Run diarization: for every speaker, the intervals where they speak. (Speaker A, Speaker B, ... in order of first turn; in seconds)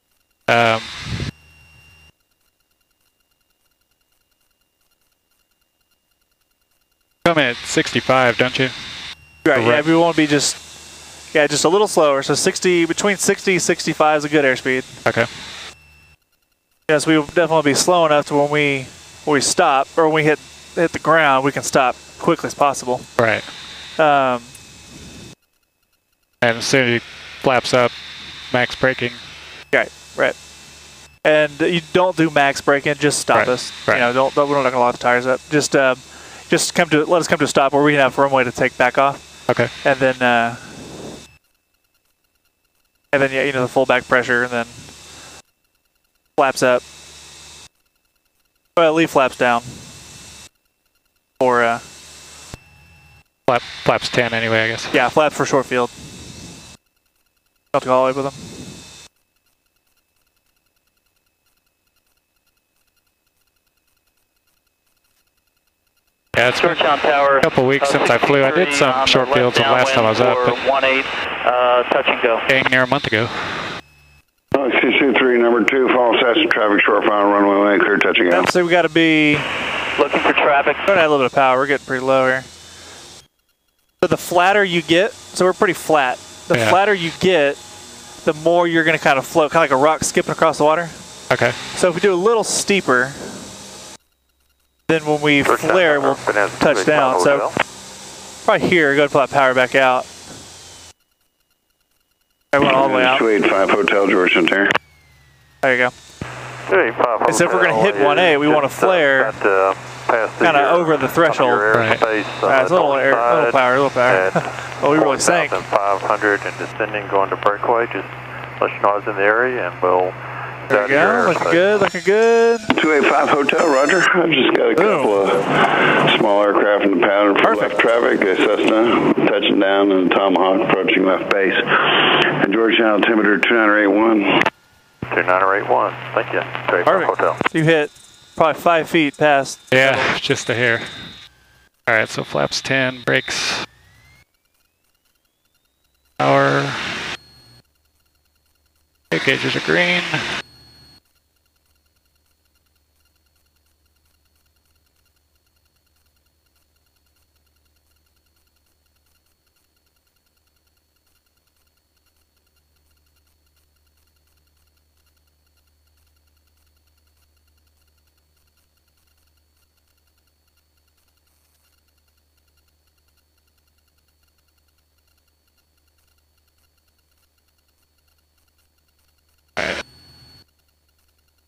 Speaker A: 0.5-1.2, 7.2-8.8, 9.5-9.9, 23.2-23.4, 26.4-27.9, 28.5-29.2, 33.3-34.1, 53.5-55.0, 66.3-66.8, 67.4-70.6, 72.5-73.7, 86.5-86.8, 91.3-91.6, 111.7-112.0, 139.7-141.2, 141.9-143.7, 146.2-147.1, 149.1-150.2, 179.6-179.8
Speaker B: 9.4-10.6, 11.3-14.9, 16.9-23.1, 24.0-24.6, 29.7-30.4, 31.2-39.3, 39.8-41.1, 43.1-44.9, 46.4-46.8, 48.8-49.9, 51.4-51.8, 54.9-56.2, 57.7-58.8, 78.3-79.5, 80.9-82.5, 84.0-87.6, 88.2-91.0, 91.7-93.5, 94.9-97.5, 98.4-100.1, 102.5-103.2, 105.6-105.9, 107.3-109.3, 110.4-111.6, 112.4-115.6, 120.7-122.7, 124.8-125.2, 127.4-127.7, 136.8-140.1
Speaker C: 66.5-72.5, 80.0-80.9
Speaker D: 74.5-78.5, 102.6-104.7, 122.7-134.3
Speaker E: 95.4-97.5, 106.7-120.2, 120.7-121.7, 135.1-137.4